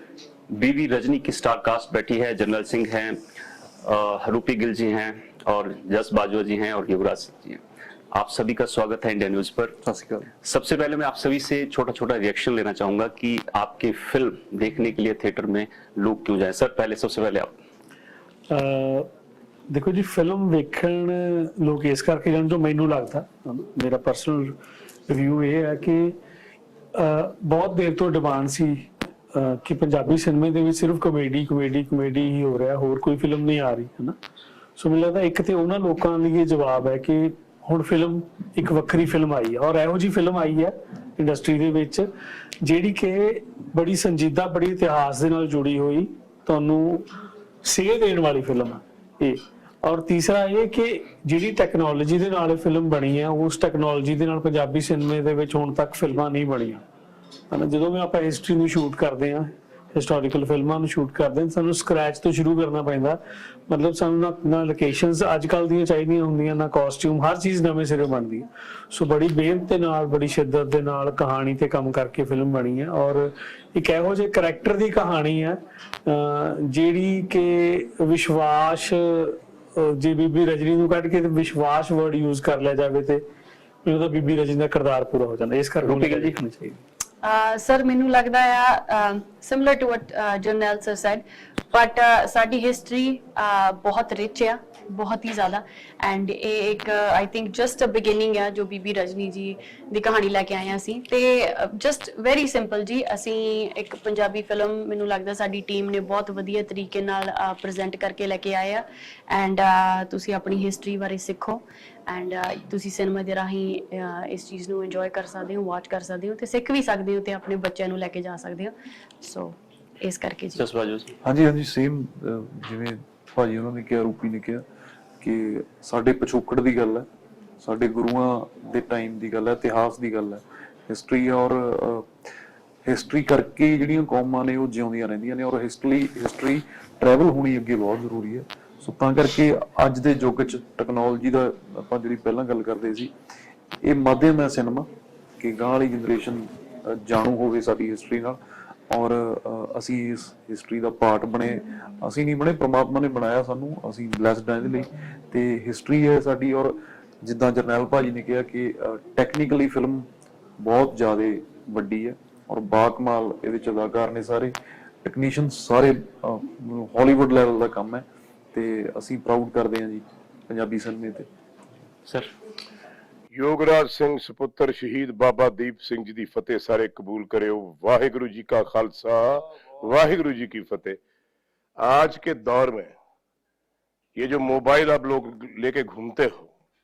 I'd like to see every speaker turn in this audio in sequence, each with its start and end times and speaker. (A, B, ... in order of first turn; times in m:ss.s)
0:00.5-0:03.2 A
0:03.8-0:07.6 A
0:08.1-0:09.8 A
0:09.8-0:10.3 B
0:10.4-0:17.5 A
0:18.5-0:19.1 C
0:19.7-0:24.6 C
0:25.1-0:26.1 C
0:26.9-0:34.2 C
0:34.8-0:42.1 C
0:42.6-0:47.1 C
0:47.6-0:56.8 C
0:57.5-1:23.2 C
1:23.8-1:26.8 C
1:25.8-1:26.4 A
1:27.2-2:00.6 D
2:00.5-2:01.2 A
2:01.2-2:04.6 B
2:05.2-2:07.1 B
2:07.6-2:12.1 B
2:12.8-2:23.1 B
2:23.8-2:24.9 B
2:25.4-2:28.4 B
2:28.9-2:40.1 B
2:40.6-2:51.3 B
2:52.0-2:52.3 A
2:53.3-3:01.0 E
3:01.8-3:02.9 E
3:04.2-3:06.5 E